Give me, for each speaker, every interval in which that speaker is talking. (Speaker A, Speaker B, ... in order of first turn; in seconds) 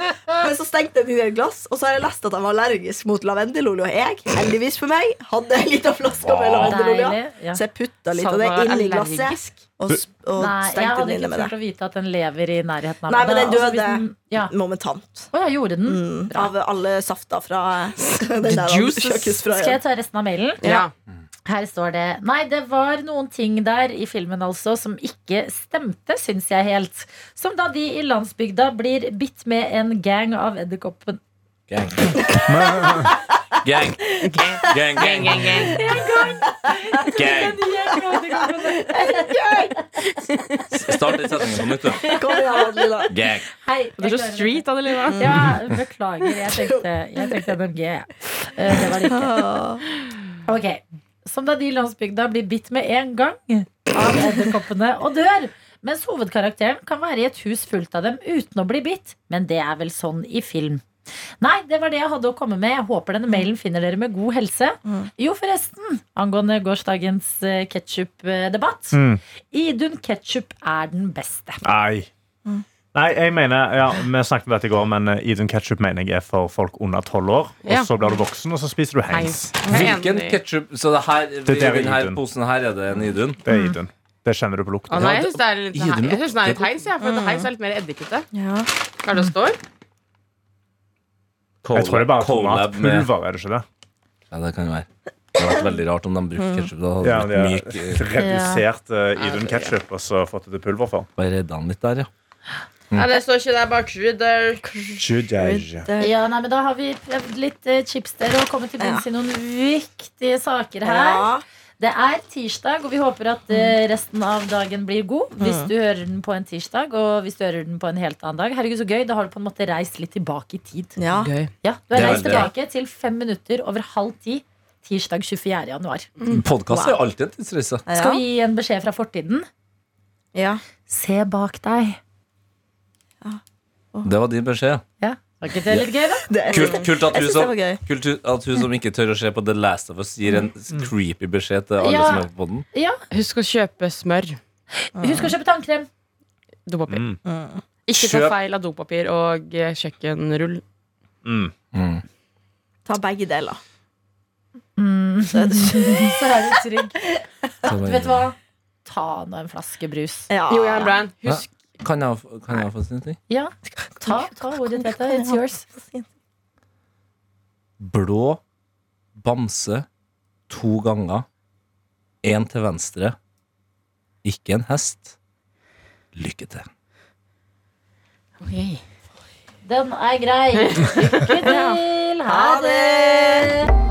Speaker A: 0.3-11.5, 13.1-15.3, 15.8-19.8, 32.2-33.2, 35.9-37.2, 38.3-39.8, 41.8-43.2, 45.1-45.5, 49.1-49.8, 79.7-79.9, 87.0-87.5, 88.3-88.7, 96.4-96.7, 104.6-106.1, 108.8-109.0, 110.8-111.4, 115.4-115.7, 121.0-121.3, 126.7-127.0, 127.9-128.2, 130.3-130.6, 136.3-137.8, 145.0-145.3, 147.2-147.6, 152.8-153.6, 155.3-156.2, 160.3-160.9, 163.7-166.1, 182.3-183.5
Speaker B: 6.1-6.8, 31.7-32.5, 33.6-35.8, 37.1-37.6, 40.7-42.1, 43.1-43.5, 79.7-83.4, 85.0-86.6, 91.6-93.1, 94.3-98.0, 101.2-102.1, 121.9-122.5, 126.3-127.8, 134.0-134.8, 136.5-142.6, 151.7-152.0, 157.6-158.2, 161.2-163.2, 167.8-168.4, 169.2-169.8, 170.5-171.2, 172.2-173.2, 174.2-175.2, 176.2-176.7
Speaker C: 6.6-7.6, 8.2-9.3, 10.4-14.5, 15.3-16.5, 19.5-20.6, 21.4-31.2, 35.7-39.8, 43.6-44.6, 45.2-49.6, 50.5-60.8, 61.4-71.6, 83.5-83.8, 98.2-98.7, 106.0-111.3, 111.8-121.0, 121.6-126.1, 127.9-129.4, 130.9-132.0, 135.0-136.8, 141.8-143.0, 144.9-145.9, 154.8-157.0, 157.6-160.3, 163.3-165.7, 179.6-183.7
Speaker D: 8.1-9.4, 18.4-19.4, 20.6-20.9, 34.2-35.9, 40.1-40.6, 44.0-45.5, 77.6-77.9, 79.1-80.4, 84.9-88.3, 89.0-89.6, 99.2-99.8, 102.9-104.6, 121.1-121.5, 122.0-122.4, 126.2-126.4, 143.1-144.4, 146.7-147.1, 147.8-150.6, 160.5-161.5, 178.4-178.8, 180.6-181.8
Speaker E: 32.7-33.0, 68.9-69.2, 71.6-72.1, 72.9-79.6, 81.4-82.2, 83.4-85.1, 91.7-93.6, 97.0-101.1, 105.0-105.9, 146.9-147.2, 147.9-148.3, 151.2-151.5